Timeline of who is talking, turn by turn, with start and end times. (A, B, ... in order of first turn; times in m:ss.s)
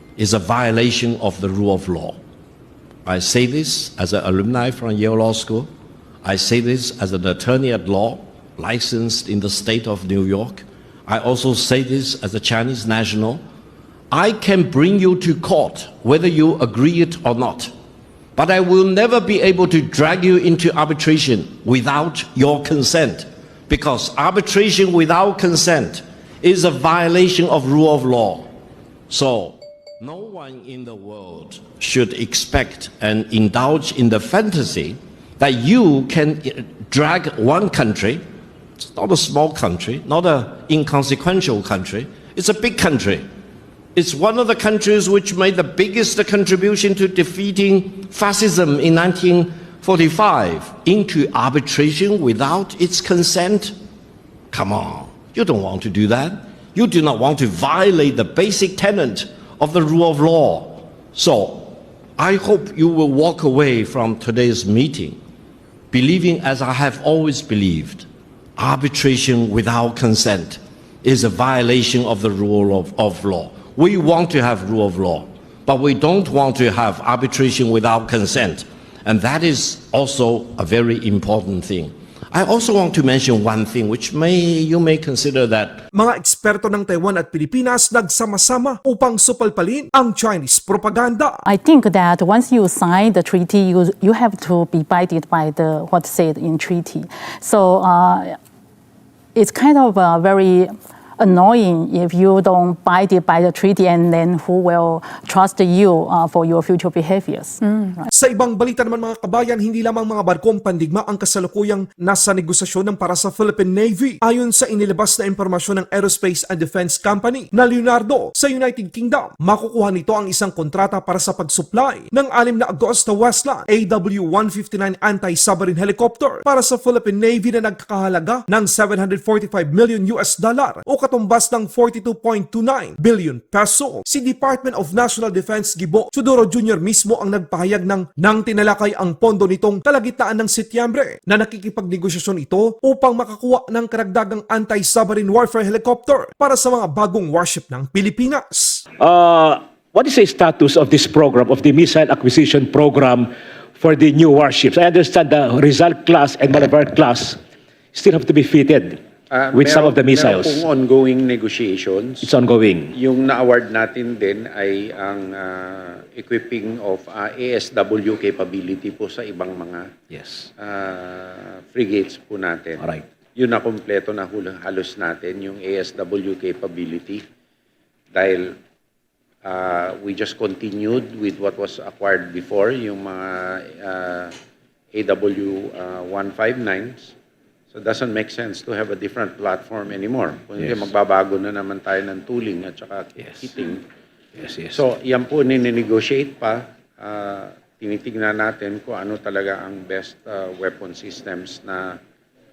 0:00.2-0:02.2 A
0:03.0-0:05.7 A
0:06.2-0:13.4 A
0:14.1-0:17.7 A
0:18.4-0:28.5 A
0:29.1-0:38.2 A
0:38.8-0:43.2 A
0:43.9-0:53.7 A
0:54.5-1:05.2 A
1:05.9-1:08.1 A
1:08.6-1:25.8 A
1:25.9-1:31.4 B
1:31.4-1:38.4 C
1:39.3-1:48.1 C
1:48.1-2:28.8 B
2:29.0-2:37.4 D
2:37.9-2:39.0 D
2:39.3-2:42.3 E
2:39.5-2:40.6 D
2:42.2-2:42.9 D
2:43.0-2:49.9 E
2:50.1-2:50.5 D
2:50.6-2:52.8 E
2:53.4-2:57.2 E
2:58.1-2:58.5 E
2:59.4-3:04.3 E
3:04.9-3:07.1 E
3:07.7-3:13.8 E
3:14.7-3:21.9 E